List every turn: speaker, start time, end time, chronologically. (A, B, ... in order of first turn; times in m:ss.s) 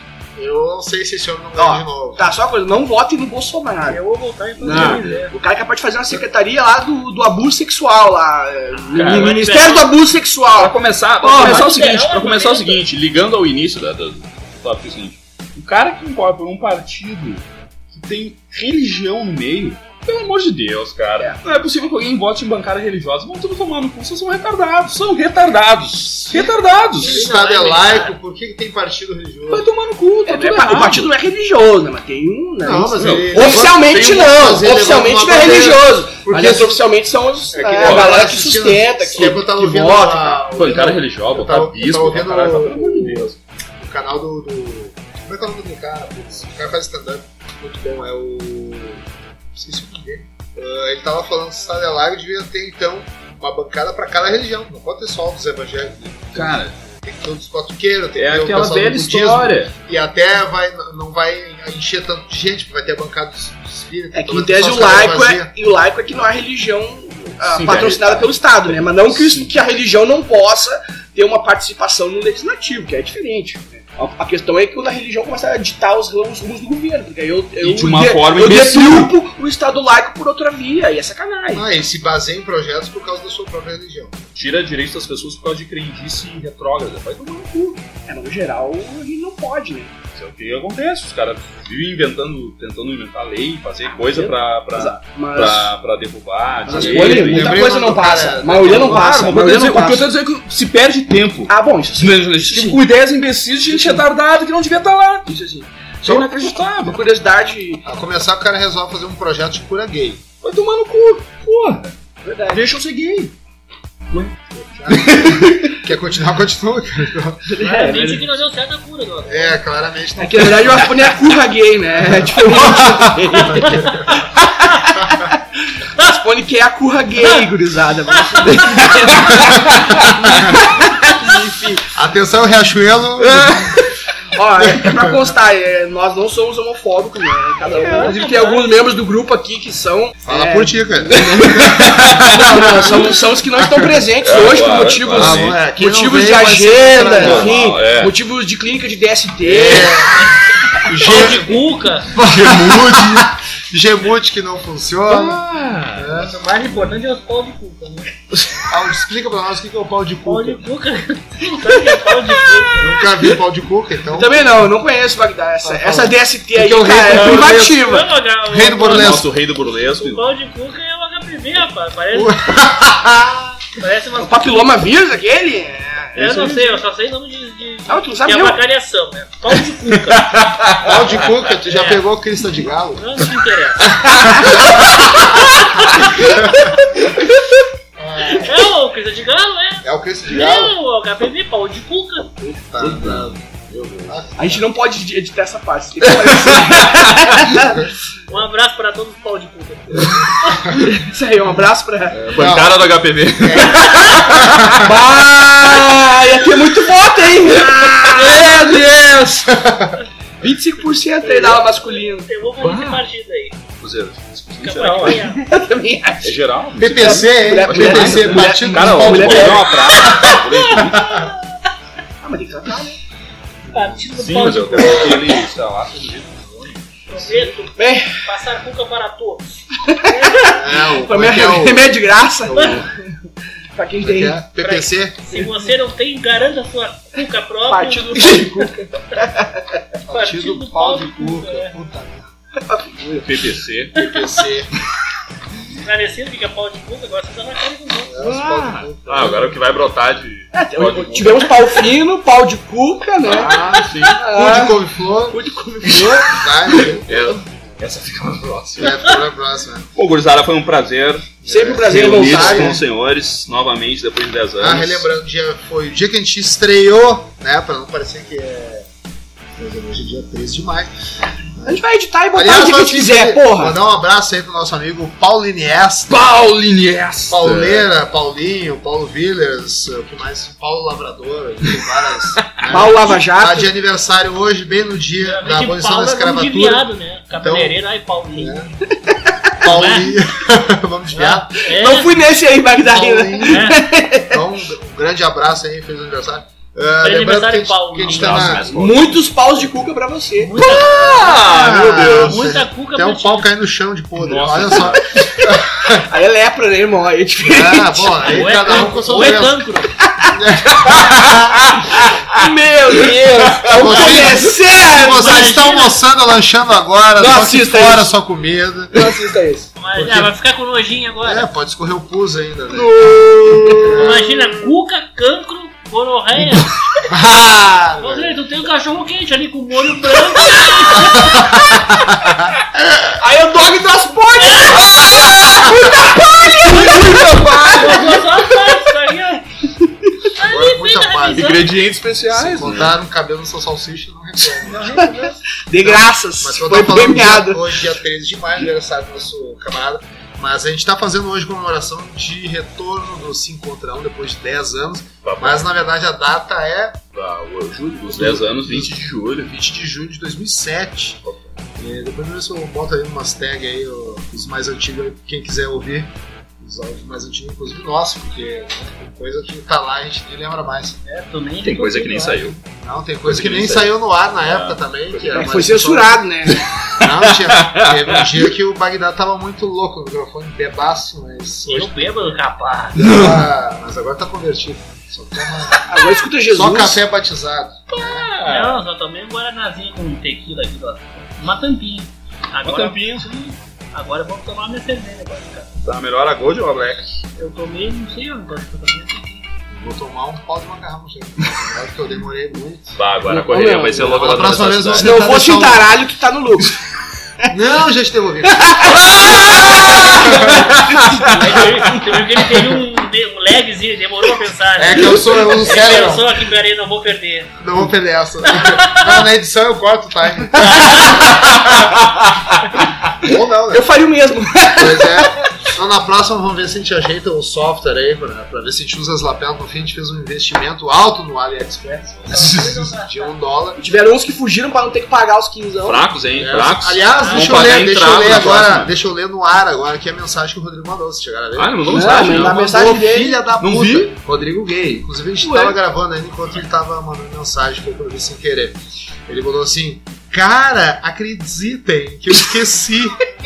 0:00.4-0:02.3 A
0:01.6-0:04.0 B
0:03.9-0:05.3 C
0:04.6-0:05.2 D
0:04.6-0:11.7 B
0:08.9-0:09.9 C
0:08.9-0:09.4 D
0:10.5-0:27.2 D
0:11.3-0:12.8 C
0:27.0-0:28.1 C
0:27.0-0:29.7 A
0:29.5-0:31.1 D
0:30.3-0:40.4 B
0:32.6-0:36.9 A
0:32.9-0:34.6 D
0:37.5-1:05.5 A
0:37.8-0:38.2 D
0:40.6-0:43.4 D
0:56.3-0:56.8 D
0:58.2-0:59.7 D
1:04.1-1:21.7 B
1:07.4-1:09.5 D
1:17.6-1:19.1 D
1:21.5-1:24.2 A
1:24.4-1:27.8 D
1:28.1-1:29.9 B
1:30.1-1:37.6 D
1:33.9-1:35.7 B
1:36.6-1:40.1 B
1:36.7-1:39.2 A
1:38.6-1:45.3 D
1:41.5-1:42.8 B
1:43.6-1:44.0 B
1:45.3-1:47.9 B
1:46.0-1:47.0 D
1:47.8-1:50.2 A
1:50.4-1:51.9 D
1:52.2-1:52.7 B
1:52.5-1:53.3 D
1:54.5-1:57.7 A
1:54.9-1:55.8 D
1:57.4-1:58.3 B
1:57.6-1:59.6 C
1:59.2-2:01.1 A
2:00.2-2:11.9 B
2:02.2-2:04.3 A
2:08.3-2:08.9 C
2:08.7-2:10.4 D
2:11.9-2:13.8 A
2:13.2-2:13.8 D
2:14.3-2:30.1 B
2:14.6-2:15.3 A
2:17.8-2:18.6 C
2:20.2-2:24.0 A
2:21.8-2:22.9 D
2:24.2-2:25.6 D
2:25.1-2:27.5 A
2:27.0-2:28.1 D
2:29.4-2:30.3 A
2:30.2-2:32.1 C
2:30.8-2:31.6 A
2:31.0-2:31.4 D
2:32.1-2:33.3 D
2:32.1-2:36.4 A
2:35.1-2:36.1 D
2:36.1-2:38.1 C
2:38.3-2:38.6 D
2:38.7-2:40.6 A
2:40.3-2:42.9 C
2:42.8-2:44.6 A
2:44.1-2:48.1 B
2:45.6-2:47.9 A
2:47.4-2:49.3 C
2:48.4-2:49.3 A
2:48.8-2:50.2 D
2:50.0-2:52.4 C
2:52.1-2:53.6 A
2:53.8-2:54.6 C
2:54.2-2:56.6 B
2:56.2-3:00.3 C
2:56.3-2:56.7 D
2:57.9-2:58.6 B
3:00.1-3:01.1 D
3:00.8-3:03.1 A
3:01.6-3:02.0 C
3:03.0-3:07.0 C
3:04.3-3:05.3 A
3:06.2-3:06.6 A
3:08.0-3:08.7 A
3:08.3-3:12.3 C
3:09.8-3:10.8 A
3:12.4-3:14.6 A
3:12.8-3:14.2 D
3:14.4-3:17.9 B
3:16.3-3:17.5 D
3:18.3-3:20.8 C
3:20.6-3:22.4 B
3:22.2-3:24.9 D
3:22.3-3:24.9 A
3:24.7-3:29.6 B
3:27.8-3:28.4 C
3:29.5-3:30.0 A
3:30.4-3:32.3 B
3:31.2-3:33.6 C
3:32.6-3:33.0 D
3:33.8-3:35.3 D
3:34.6-3:35.4 C
3:35.1-3:36.3 B
3:36.2-3:41.3 D
3:36.8-3:39.8 A
3:36.9-3:40.2 B
3:40.0-3:41.3 C
3:40.8-3:41.3 A
3:42.2-3:43.0 B
3:43.6-3:44.9 A
3:43.7-3:45.4 C
3:44.2-3:47.0 D
3:47.1-3:50.6 C
3:47.8-3:48.2 B
3:49.8-3:53.1 B
3:50.5-3:52.8 A
3:52.5-3:52.8 C
3:53.8-3:54.4 B
3:54.0-3:55.2 A
3:54.6-3:58.7 C
3:55.3-3:55.6 B
3:57.7-3:59.8 B
4:00.1-4:02.3 A
4:00.1-4:01.8 C
4:02.6-4:03.4 B
4:03.2-4:04.1 D
4:04.0-4:04.7 A
4:05.8-4:08.2 C
4:08.1-4:09.6 A
4:08.2-4:11.9 D
4:10.5-4:17.3 B
4:13.3-4:15.4 A
4:13.3-4:14.2 D
4:16.2-4:17.1 A
4:16.8-4:19.1 D
4:18.8-4:19.9 A
4:20.0-4:25.1 D
4:21.4-4:22.8 A
4:21.4-4:22.8 B
4:24.6-4:28.9 A
4:29.6-4:30.9 A
4:31.6-4:31.8 A
4:31.6-4:33.8 B
4:32.3-4:36.3 A
4:36.1-4:37.9 D
4:37.3-4:47.8 A
4:42.6-4:43.7 B
4:45.2-4:48.8 C
4:48.4-4:48.7 A
4:48.9-4:49.6 B
4:49.6-4:51.5 A
4:49.6-4:50.2 C
4:51.1-4:54.4 B
4:51.6-4:52.2 C
4:52.8-4:58.7 A
4:53.5-4:53.8 C
4:57.0-4:58.6 C
4:58.0-4:59.3 D
4:58.7-5:00.6 B
5:00.4-5:01.2 C
5:00.6-5:02.6 D
5:00.7-5:06.1 A
5:02.2-5:03.5 C
5:04.2-5:05.3 D
5:05.2-5:08.4 B
5:07.4-5:09.7 A
5:08.3-5:09.9 C
5:10.0-5:10.4 B
5:10.2-5:11.7 A
5:10.8-5:12.5 D
5:11.9-5:15.6 B
5:13.0-5:14.4 D
5:13.7-5:19.1 A
5:14.9-5:16.0 C
5:17.2-5:18.1 B
5:18.9-5:19.7 B
5:19.8-5:21.5 C
5:19.9-5:20.3 A
5:21.2-5:24.4 A
5:22.7-5:24.0 D
5:23.5-5:23.8 B
5:23.9-5:26.8 C
5:27.1-5:28.4 A
5:28.0-5:31.6 C
5:30.9-5:33.2 A
5:33.1-5:38.9 B
5:34.4-5:35.2 C
5:34.7-5:36.0 D
5:36.6-5:38.3 D
5:37.7-5:39.5 C
5:40.4-5:41.6 C
5:40.4-5:41.6 A
5:41.3-5:43.0 D
5:42.3-5:45.1 A
5:44.8-5:45.4 C
5:44.9-5:47.8 B
5:45.8-5:57.0 A
5:55.2-5:55.8 D
5:57.1-5:59.5 D
5:58.1-6:01.2 A
6:01.8-6:11.0 A
6:11.0-6:12.6 C
6:11.6-6:12.6 D
6:12.8-6:16.2 A
6:13.2-6:15.5 D
6:15.3-6:16.6 B
6:16.6-6:18.4 D
6:17.0-6:22.1 A
6:21.6-6:23.2 C
6:22.9-6:28.3 A
6:23.0-6:23.4 D
6:25.8-6:27.0 B
6:27.9-6:28.8 D
6:28.4-6:35.7 C
6:32.6-6:33.4 D
6:35.8-6:37.2 D
6:37.4-6:39.5 C
6:39.7-6:43.0 A
6:43.0-6:45.1 D
6:43.3-6:44.2 B
6:44.0-6:45.8 A
6:45.0-6:46.8 B
6:47.5-6:50.7 A
6:48.6-6:51.4 B
6:49.0-6:52.0 D
6:51.3-6:57.5 C
6:54.8-6:56.3 A
6:57.6-7:02.0 A
6:58.6-6:59.2 C
7:01.6-7:02.6 D
7:03.1-7:03.9 A
7:03.7-7:05.5 B
7:04.7-7:13.8 A
7:12.2-7:13.4 C
7:12.3-7:12.8 D
7:13.8-7:16.1 B
7:15.8-7:18.9 D
7:16.4-7:33.2 A
7:17.1-7:17.9 C
7:21.6-7:22.7 D
7:21.9-7:23.4 B
7:23.6-7:24.2 D
7:25.4-7:25.8 B